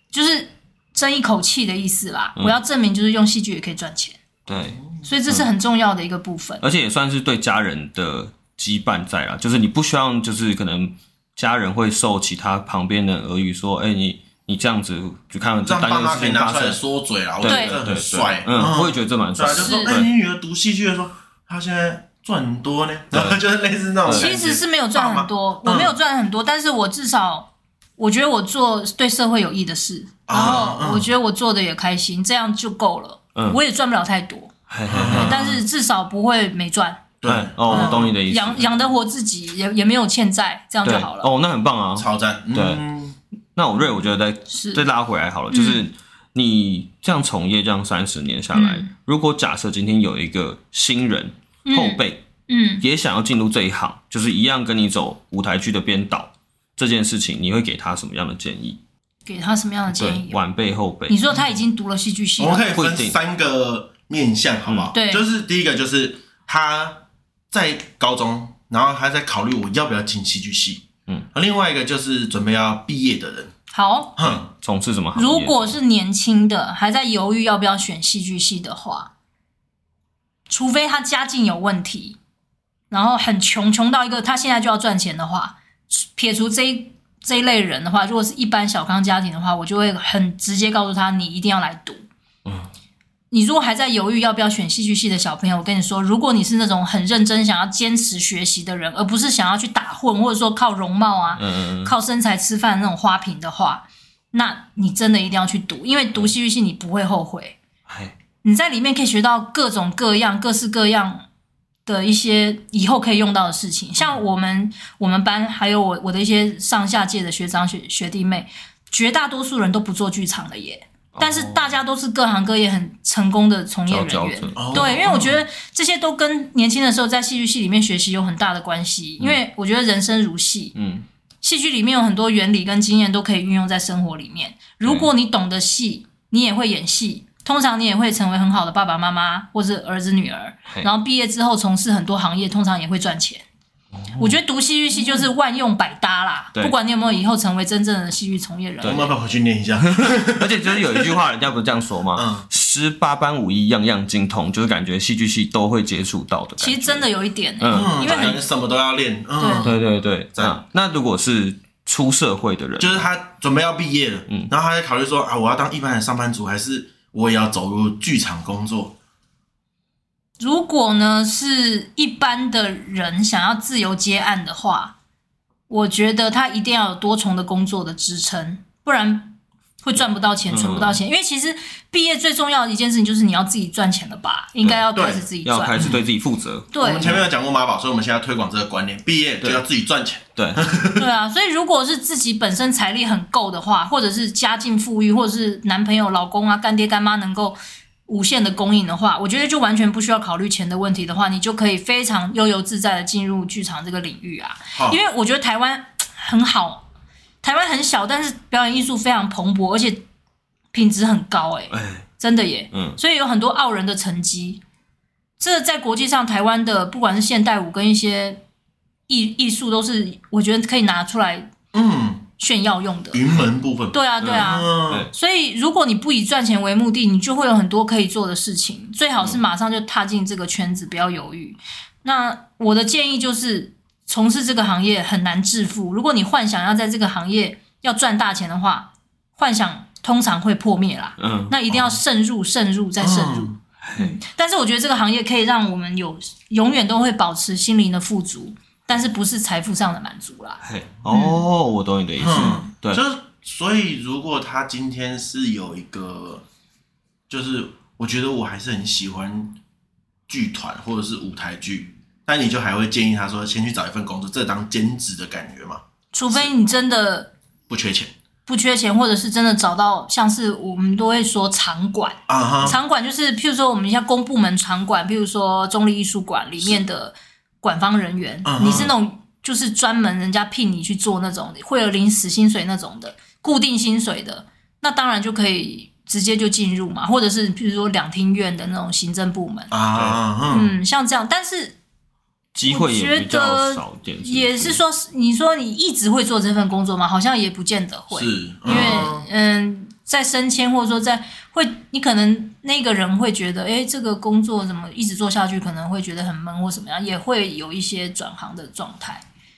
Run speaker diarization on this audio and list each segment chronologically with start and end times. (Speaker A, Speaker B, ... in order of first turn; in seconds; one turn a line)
Speaker A: 0.1-4.2
Speaker B: 4.5-5.5
Speaker A: 5.0-6.6
Speaker B: 6.6-16.8
Speaker C: 15.6-26.0
Speaker B: 17.4-20.1
Speaker A: 17.5-17.8
Speaker A: 19.5-20.0
Speaker B: 23.1-23.4
Speaker B: 24.1-24.3
Speaker A: 24.1-34.5
Speaker C: 30.3-31.1
Speaker B: 34.7-35.6
Speaker C: 34.9-35.6
Speaker A: 35.1-37.1
Speaker C: 37.2-38.2
Speaker B: 37.3-38.7
Speaker A: 37.7-41.3
Speaker B: 40.8-42.8
Speaker C: 42.0-43.2
Speaker B: 43.5-52.2
Speaker A: 44.5-44.9
Speaker A: 45.5-45.8
Speaker A: 48.5-48.9
Speaker A: 51.7-52.8
Speaker B: 52.8-58.8
Speaker A: 59.3-60.4
Speaker B: 59.9-61.2
Speaker A: 61.1-62.6
Speaker C: 62.4-73.5
Speaker B: 62.7-63.2
Speaker B: 64.7-64.9
Speaker A: 64.9-65.2
Speaker A: 73.7-74.2
Speaker C: 74.2-74.5
Speaker B: 74.2-75.8
Speaker A: 75.2-79.1
Speaker A: 80.5-82.2
Speaker A: 82.9-92.0
Speaker B: 92.5-92.7
Speaker A: 93.3-107.6
Speaker B: 101.3-101.9
Speaker B: 107.9-108.2
Speaker A: 108.4-111.2
Speaker A: 111.9-130.8
Speaker B: 121.2-121.7
Speaker B: 123.9-125.1
Speaker C: 124.6-125.4
Speaker B: 130.8-131.1
Speaker A: 131.4-143.4
Speaker B: 134.8-135.1
Speaker B: 143.9-144.4
Speaker A: 144.2-149.1
Speaker C: 148.8-151.1
Speaker B: 149.8-157.1
Speaker C: 152.2-152.4
Speaker A: 156.6-158.4
Speaker B: 157.6-158.4
Speaker C: 157.7-159.8
Speaker A: 159.4-159.7
Speaker B: 159.6-163.1
Speaker C: 160.3-160.6
Speaker C: 162.8-169.0
Speaker A: 170.4-174.9
Speaker A: 175.7-185.8
Speaker B: 180.5-181.0
Speaker C: 184.9-185.3
Speaker B: 185.4-187.2
Speaker A: 186.7-187.1
Speaker C: 186.8-191.1
Speaker B: 190.4-190.7
Speaker A: 190.9-206.8
Speaker C: 204.8-205.0
Speaker A: 207.4-210.0
Speaker A: 210.7-214.6
Speaker B: 211.7-212.1
Speaker B: 212.7-213.0
Speaker A: 215.4-218.4
Speaker A: 219.1-221.5
Speaker C: 221.7-222.3
Speaker A: 222.4-223.2
Speaker C: 223.1-225.1
Speaker A: 223.9-251.4
Speaker B: 224.2-225.1
Speaker B: 241.2-241.6
Speaker C: 243.0-243.6
Speaker B: 243.8-244.2
Speaker B: 250.6-253.0
Speaker C: 252.2-256.4
Speaker C: 257.3-259.6
Speaker C: 260.3-266.5
Speaker A: 266.1-267.3
Speaker C: 267.7-268.1
Speaker A: 268.5-289.7
Speaker C: 272.3-272.8
Speaker C: 278.4-278.9
Speaker C: 289.7-290.8
Speaker A: 290.5-291.8
Speaker B: 292.6-294.8
Speaker A: 292.7-309.2
Speaker C: 298.1-299.3
Speaker B: 298.7-299.0